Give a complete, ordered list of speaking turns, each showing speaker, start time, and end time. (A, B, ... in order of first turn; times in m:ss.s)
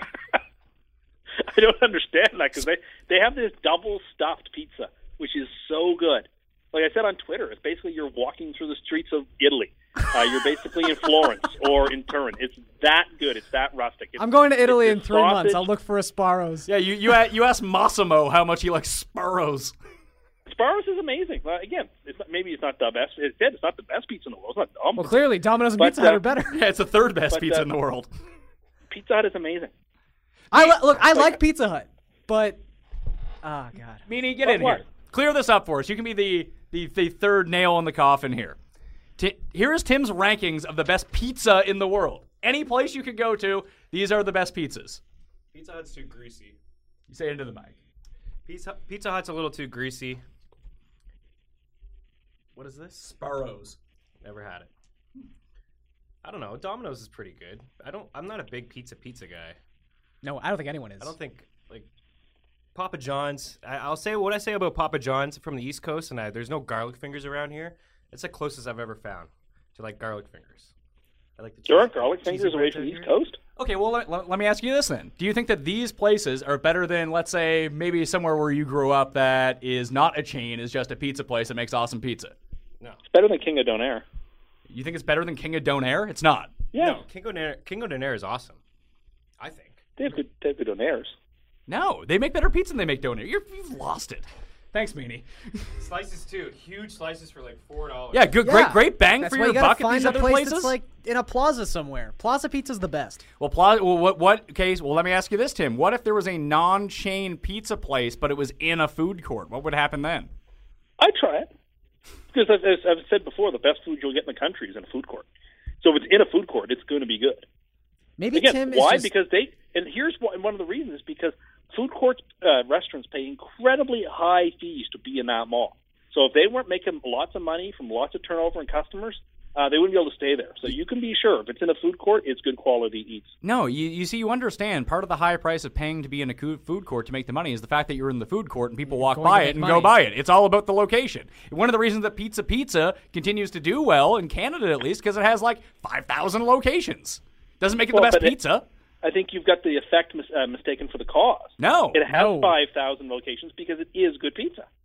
0:01.4-0:15.7 A
0:14.2-0:16.7 B
0:16.7-0:19.7 C
0:20.5-0:25.2 A
0:25.0-0:26.6 B
0:25.8-0:26.2 A
0:26.5-0:28.1 C
0:27.3-0:27.7 A
0:28.9-0:29.7 A
0:30.5-0:32.6 B
0:33.4-0:34.0 B
0:34.1-0:38.6 C
0:34.4-0:34.8 A
0:39.2-0:45.0 C
0:45.5-0:46.6 D
0:47.1-0:47.8 C
0:48.4-0:50.2 D
0:52.6-0:53.1 D
0:53.0-0:53.8 C
0:54.2-0:54.7 D
0:56.2-0:59.6 D
1:00.2-1:01.1 B
1:01.0-1:01.9 D
1:02.7-1:10.7 D
1:11.4-1:13.1 D
1:11.6-1:13.4 A
1:13.6-1:22.3 C
1:23.1-1:24.0 A
1:24.7-1:26.6 C
1:26.7-1:27.0 A
1:26.8-1:28.6 D
1:29.4-1:30.2 D
1:30.0-1:31.1 A
1:31.7-1:35.7 C
1:35.8-1:38.4 D
1:38.1-1:40.7 C
1:38.4-1:43.2 B
1:43.4-1:50.3 C
1:51.0-1:51.5 A
1:52.3-1:55.3 A
1:55.8-1:57.4 A
1:58.2-1:59.1 B
1:58.3-2:13.3 A
2:13.4-2:28.6 C
2:18.9-2:20.0 B
2:27.9-2:28.4 A
2:29.0-2:34.6 A
2:31.6-2:32.0 C
2:32.1-2:32.6 B